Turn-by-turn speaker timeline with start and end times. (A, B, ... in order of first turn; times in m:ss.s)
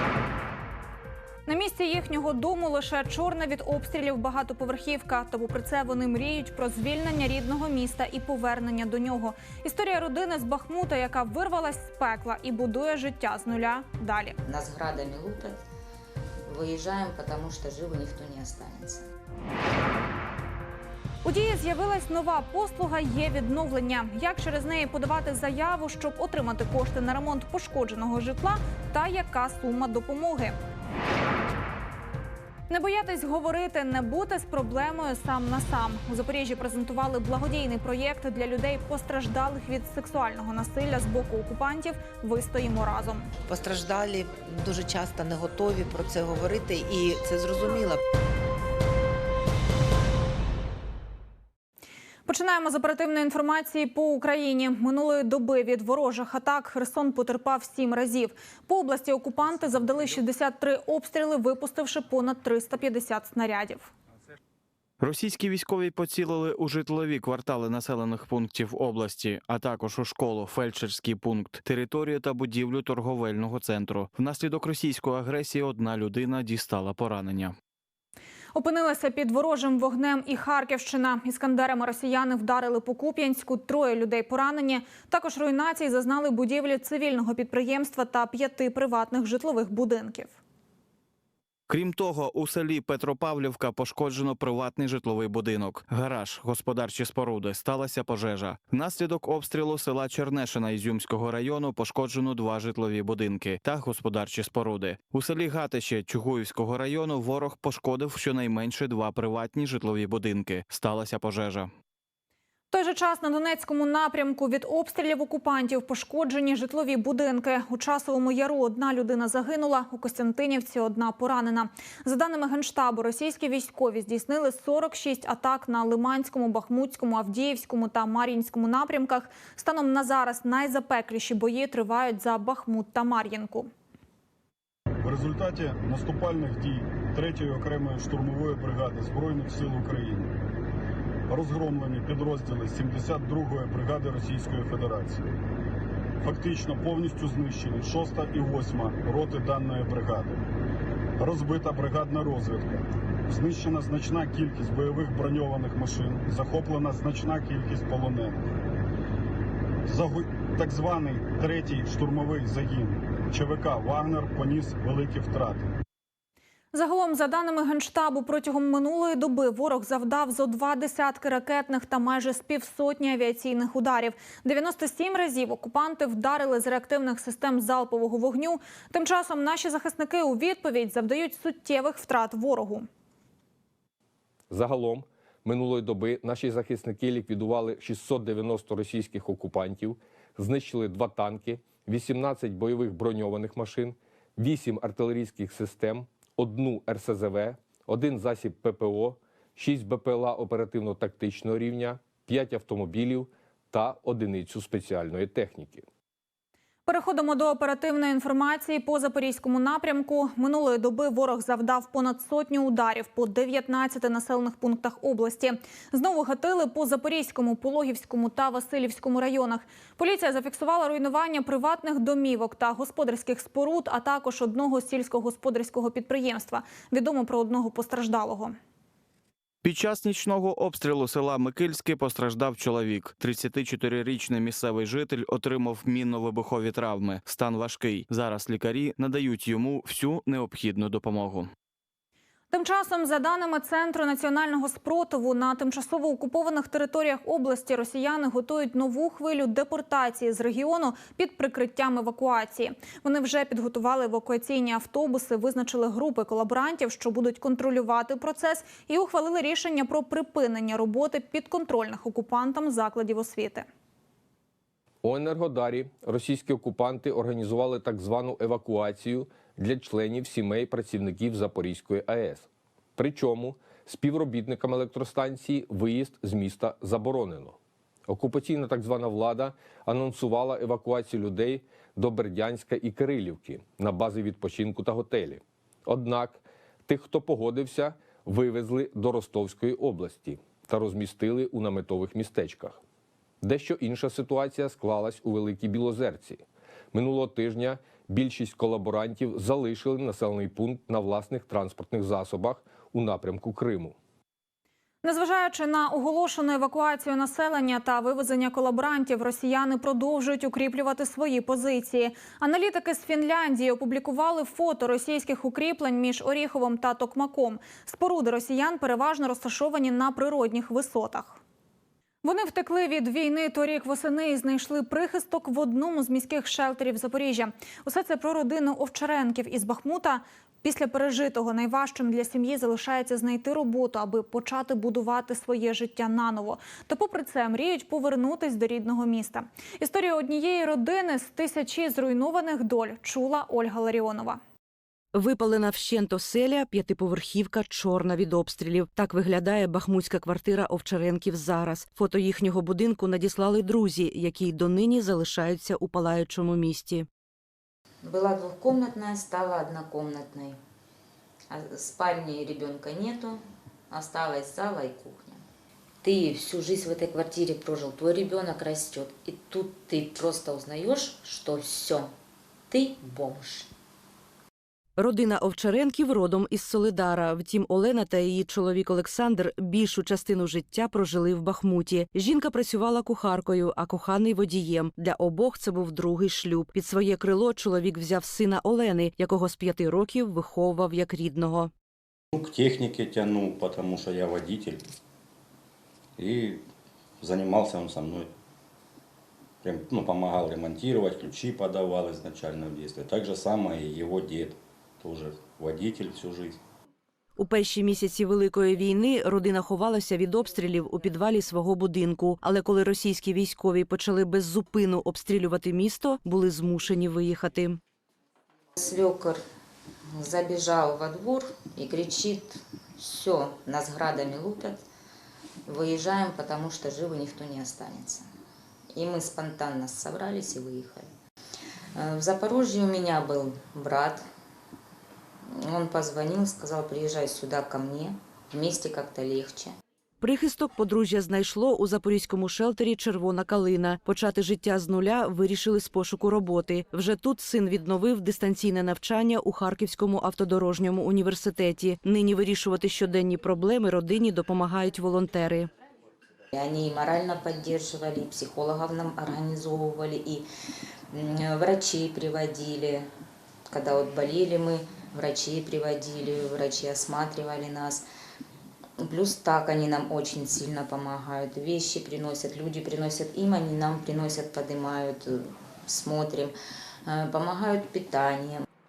0:01.5-0:14.4 A
0:14.4-0:15.6 B
0:16.4-0:19.1 B
0:21.2-0:30.6 A
0:32.7-0:43.3 A
0:43.5-0:48.0 C
0:52.3-1:03.9 A
1:05.0-1:17.6 D
1:18.6-1:30.4 A
1:31.7-1:51.7 D
1:52.7-2:13.7 A
2:15.0-2:20.3 E
2:21.3-2:25.3 E
2:26.2-2:30.4 E
2:31.2-2:38.5 E
2:39.9-2:45.7 E
2:46.7-3:02.9 A
3:04.5-3:25.8 F
3:26.9-3:48.6 A
3:49.6-4:01.5 D
4:02.5-4:23.7 A
4:25.0-4:37.6 F
4:38.1-4:52.8 F
4:53.4-5:04.0 F
5:05.0-5:21.4 A
5:22.2-5:44.4 A
5:45.1-5:57.1 G
5:58.0-6:00.6 B
6:01.5-6:05.4 B
6:06.0-6:12.1 B
6:12.7-6:13.7 B
6:15.0-6:31.7 G
6:32.3-6:34.9 H
6:36.2-6:36.6 H
6:37.2-6:38.3 H
6:39.6-6:46.6 H
6:47.4-6:57.8 G
6:58.8-6:59.4 B
7:00.1-7:04.8 B
7:05.7-7:08.3 B
7:08.9-7:11.1 B
7:12.0-7:14.3 B
7:15.5-7:19.7 B
7:20.2-7:35.7 G
7:36.5-7:40.4 B
7:41.1-7:43.1 B
7:43.7-7:48.0 B
7:49.0-7:56.5 B
7:57.1-7:58.7 B